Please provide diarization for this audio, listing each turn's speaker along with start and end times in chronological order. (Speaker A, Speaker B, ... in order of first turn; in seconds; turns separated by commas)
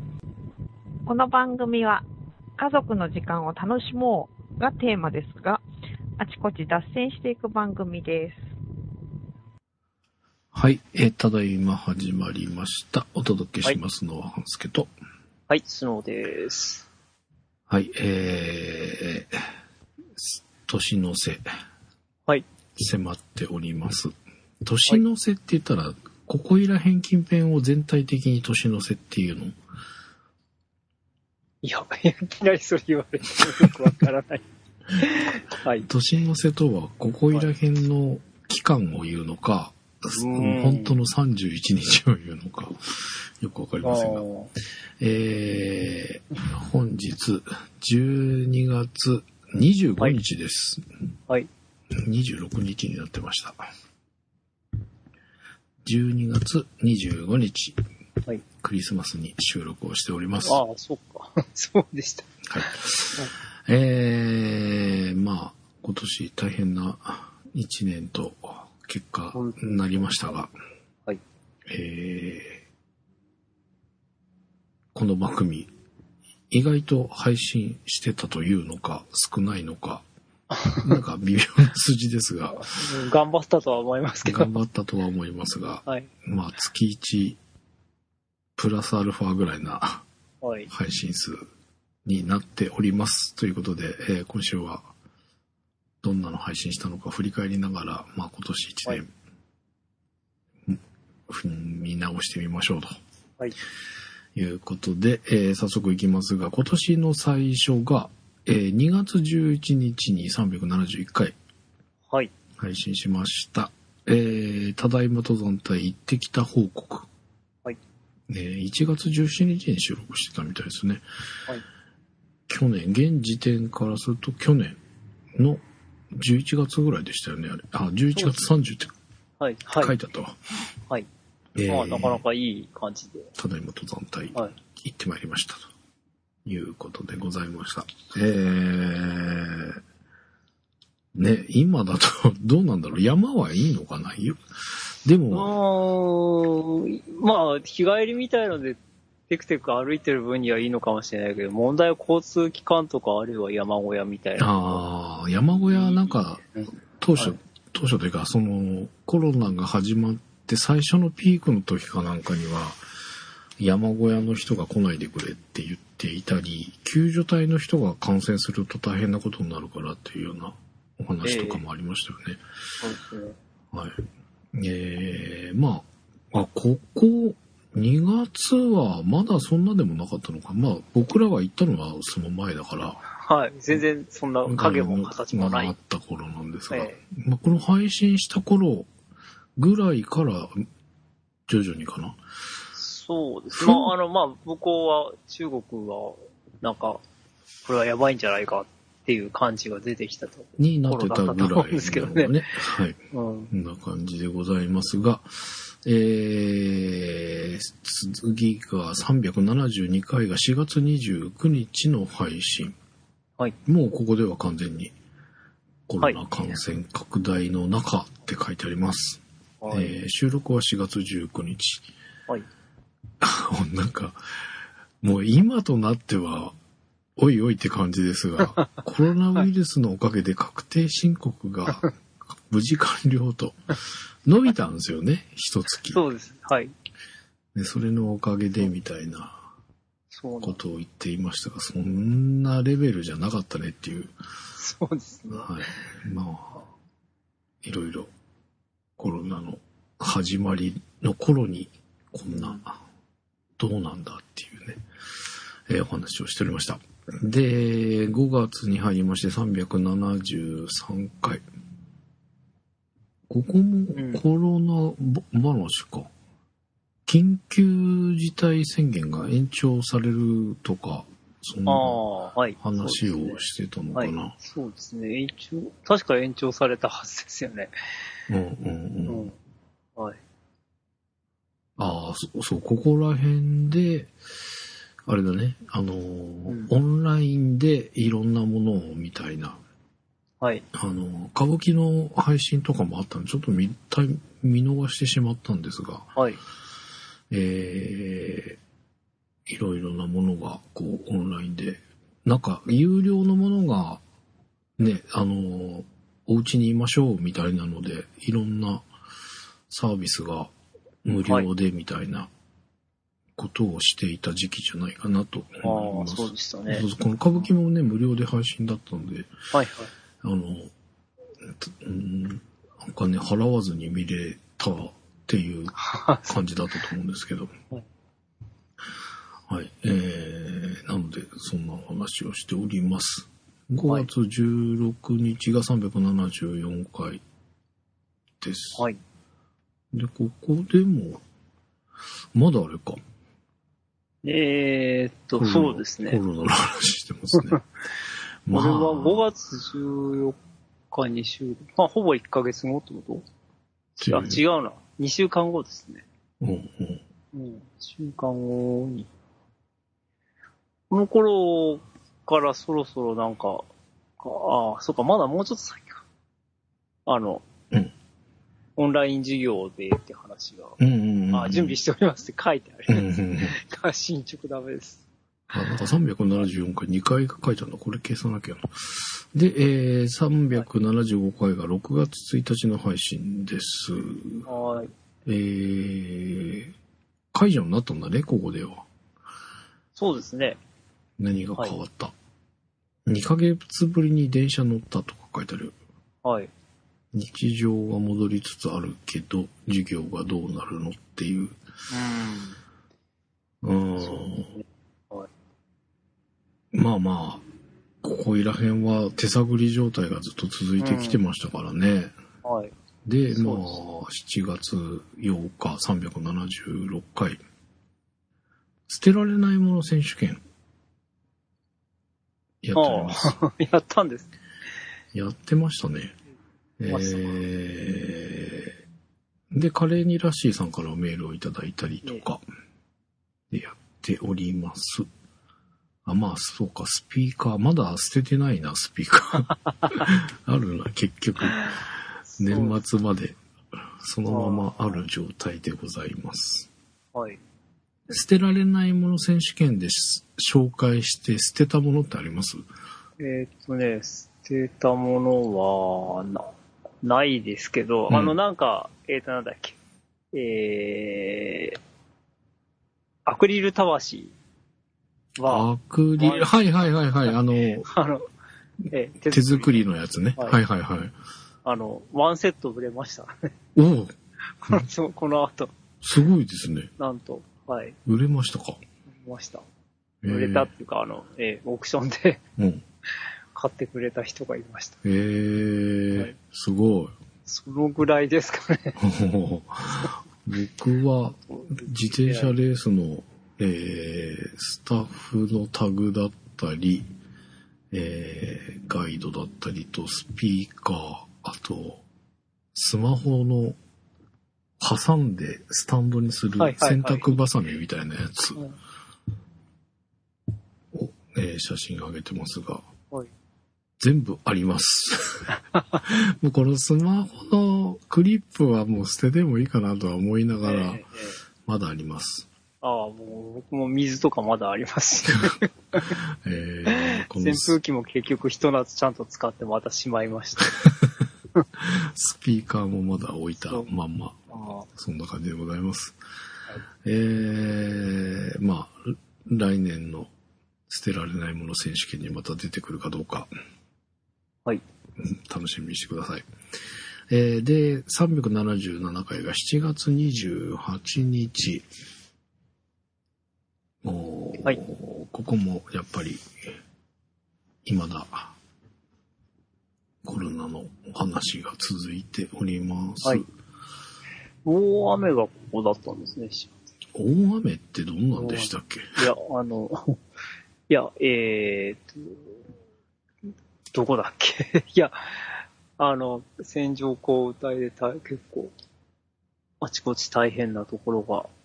Speaker A: 1.1-2.0, Speaker A: 2.6-5.6, Speaker A: 6.2-8.4, Speaker B: 10.5-14.9, Speaker C: 15.5-16.9, Speaker B: 17.7-19.4, Speaker B: 20.1-21.4, Speaker B: 22.8-29.5, Speaker C: 31.6-35.9, Speaker B: 35.9-44.2, Speaker C: 40.1-41.0, Speaker C: 43.8-44.5, Speaker B: 45.0-50.9, Speaker B: 51.9-53.6, Speaker B: 55.8-57.8, Speaker B: 58.6-60.6, Speaker C: 60.4-63.3, Speaker B: 62.5-70.5, Speaker C: 69.3-70.3, Speaker B: 71.7-72.6, Speaker B: 74.9-75.7, Speaker B: 76.5-80.0, Speaker C: 80.5-81.0, Speaker B: 80.8-82.7, Speaker C: 82.5-84.5, Speaker B: 84.2-87.4, Speaker B: 88.6-90.0, Speaker C: 90.4-90.7, Speaker B: 90.7-91.4, Speaker B: 92.0-94.9, Speaker B: 96.0-99.1, Speaker B: 100.7-103.0, Speaker B: 104.3-111.3, Speaker B: 112.6-117.1, Speaker B: 118.3-121.0, Speaker B: 122.5-124.8, Speaker B: 125.3-128.9, Speaker C: 129.4-129.9, Speaker B: 129.8-130.4, Speaker B: 131.5-132.2, Speaker C: 131.7-133.3, Speaker B: 133.3-135.7, Speaker B: 136.4-139.8, Speaker B: 141.1-144.4, Speaker B: 145.0-145.5, Speaker C: 145.3-154.8, Speaker B: 154.4-156.4, Speaker C: 155.7-157.4, Speaker B: 157.0-162.8, Speaker B: 163.6-172.4, Speaker C: 171.2-171.6, Speaker C: 172.8-173.4, Speaker B: 173.7-174.0, Speaker B: 174.5-183.0, Speaker C: 183.2-185.7, Speaker B: 184.4-188.9, Speaker C: 186.7-187.0, Speaker B: 189.6-190.6, Speaker B: 191.5-192.2, Speaker C: 192.7-197.0, Speaker B: 193.5-193.9, Speaker C: 197.6-202.6, Speaker B: 200.6-203.0, Speaker C: 203.1-203.5, Speaker B: 203.5-212.7, Speaker B: 213.7-214.9, Speaker B: 215.9-221.8, Speaker C: 219.6-219.9, Speaker B: 223.2-224.2, Speaker B: 225.0-226.5, Speaker B: 227.2-231.9, Speaker B: 232.5-233.6, Speaker B: 234.2-236.0, Speaker C: 235.9-236.7, Speaker B: 237.5-239.4, Speaker C: 240.1-240.6, Speaker B: 240.4-244.1, Speaker C: 244.6-245.5, Speaker B: 245.3-246.7, Speaker B: 247.6-248.1, Speaker B: 249.0-252.8, Speaker B: 253.6-254.8, Speaker B: 255.7-261.4, Speaker B: 263.3-266.1, Speaker C: 263.9-264.2, Speaker B: 267.1-272.0, Speaker C: 271.6-273.4, Speaker B: 272.6-274.4, Speaker C: 273.9-277.7, Speaker B: 278.3-279.3, Speaker C: 279.1-279.3, Speaker B: 281.8-284.1, Speaker B: 285.1-289.6, Speaker B: 290.7-296.1, Speaker B: 297.3-298.6, Speaker B: 299.5-304.0, Speaker B: 304.8-308.8, Speaker B: 309.7-310.5, Speaker B: 311.0-312.3, Speaker B: 313.4-319.3, Speaker C: 315.6-316.8, Speaker C: 319.5-319.9, Speaker B: 320.2-320.7, Speaker B: 321.4-325.8, Speaker C: 325.8-326.4, Speaker B: 326.3-327.5, Speaker B: 329.5-337.2, Speaker B: 338.4-338.9, Speaker B: 339.9-341.2, Speaker B: 342.3-343.0, Speaker C: 344.2-346.2, Speaker B: 345.4-347.6, Speaker B: 348.4-349.2, Speaker C: 348.5-350.4, Speaker C: 350.9-353.2, Speaker C: 354.0-356.0, Speaker B: 354.0-354.4, Speaker B: 356.4-357.0, Speaker C: 357.3-359.1, Speaker C: 360.9-363.7, Speaker C: 364.2-366.0, Speaker C: 367.1-367.4, Speaker C: 368.8-370.8, Speaker B: 370.8-371.8, Speaker C: 371.3-375.0, Speaker B: 372.9-373.5, Speaker B: 375.5-384.4, Speaker C: 384.4-384.9, Speaker B: 385.2-386.7, Speaker B: 387.3-388.9, Speaker C: 389.9-390.6, Speaker B: 391.2-392.1, Speaker B: 393.1-395.8, Speaker C: 396.2-396.5, Speaker B: 397.1-401.5, Speaker C: 401.9-402.6, Speaker B: 403.6-404.5, Speaker C: 404.0-405.3, Speaker B: 406.7-407.4, Speaker B: 408.0-412.1, Speaker C: 410.8-411.2, Speaker C: 412.4-412.7, Speaker B: 413.0-417.4, Speaker C: 413.3-413.8, Speaker B: 418.9-420.4, Speaker B: 422.6-423.4, Speaker C: 422.7-424.3, Speaker B: 425.1-426.1, Speaker B: 426.8-428.8, Speaker C: 426.9-427.3, Speaker B: 429.5-432.4, Speaker B: 433.5-435.1, Speaker B: 436.1-446.7, Speaker C: 442.3-442.8, Speaker C: 444.3-445.0, Speaker C: 447.1-447.4, Speaker B: 448.1-452.6, Speaker C: 453.2-456.5, Speaker C: 457.0-459.8, Speaker B: 458.1-458.4, Speaker C: 460.3-461.8, Speaker C: 463.2-464.3, Speaker C: 465.4-465.7, Speaker B: 465.4-467.9, Speaker C: 466.2-466.5, Speaker C: 467.8-468.2, Speaker C: 468.9-469.8, Speaker B: 469.3-471.1, Speaker C: 471.6-473.5, Speaker B: 473.7-474.1, Speaker C: 474.6-475.7, Speaker B: 476.0-476.9, Speaker C: 477.0-478.0, Speaker B: 478.1-478.8, Speaker C: 479.2-479.6, Speaker B: 480.2-480.7, Speaker C: 480.3-482.4, Speaker B: 482.6-482.8, Speaker C: 483.5-485.0, Speaker B: 485.0-487.1, Speaker C: 487.5-489.0, Speaker B: 489.0-497.1, Speaker C: 491.5-492.5, Speaker B: 497.9-502.0, Speaker B: 502.7-503.8, Speaker B: 504.8-508.6, Speaker C: 506.6-507.3, Speaker B: 510.9-512.9, Speaker B: 514.0-515.5, Speaker C: 515.7-516.0, Speaker B: 516.0-521.1, Speaker C: 520.6-521.4, Speaker B: 521.6-522.5, Speaker C: 522.8-526.1, Speaker B: 526.0-527.8, Speaker C: 526.9-530.8, Speaker B: 530.8-531.1, Speaker B: 531.8-534.4, Speaker C: 534.5-534.9, Speaker B: 534.9-536.2, Speaker B: 537.0-540.3, Speaker B: 540.9-543.5, Speaker B: 545.2-546.4, Speaker B: 547.3-551.9, Speaker B: 554.0-556.7, Speaker B: 557.8-558.5, Speaker B: 560.2-563.4, Speaker C: 564.6-566.7, Speaker B: 567.1-569.2, Speaker C: 568.4-570.2, Speaker C: 570.9-572.5, Speaker C: 573.9-578.7, Speaker C: 579.8-581.5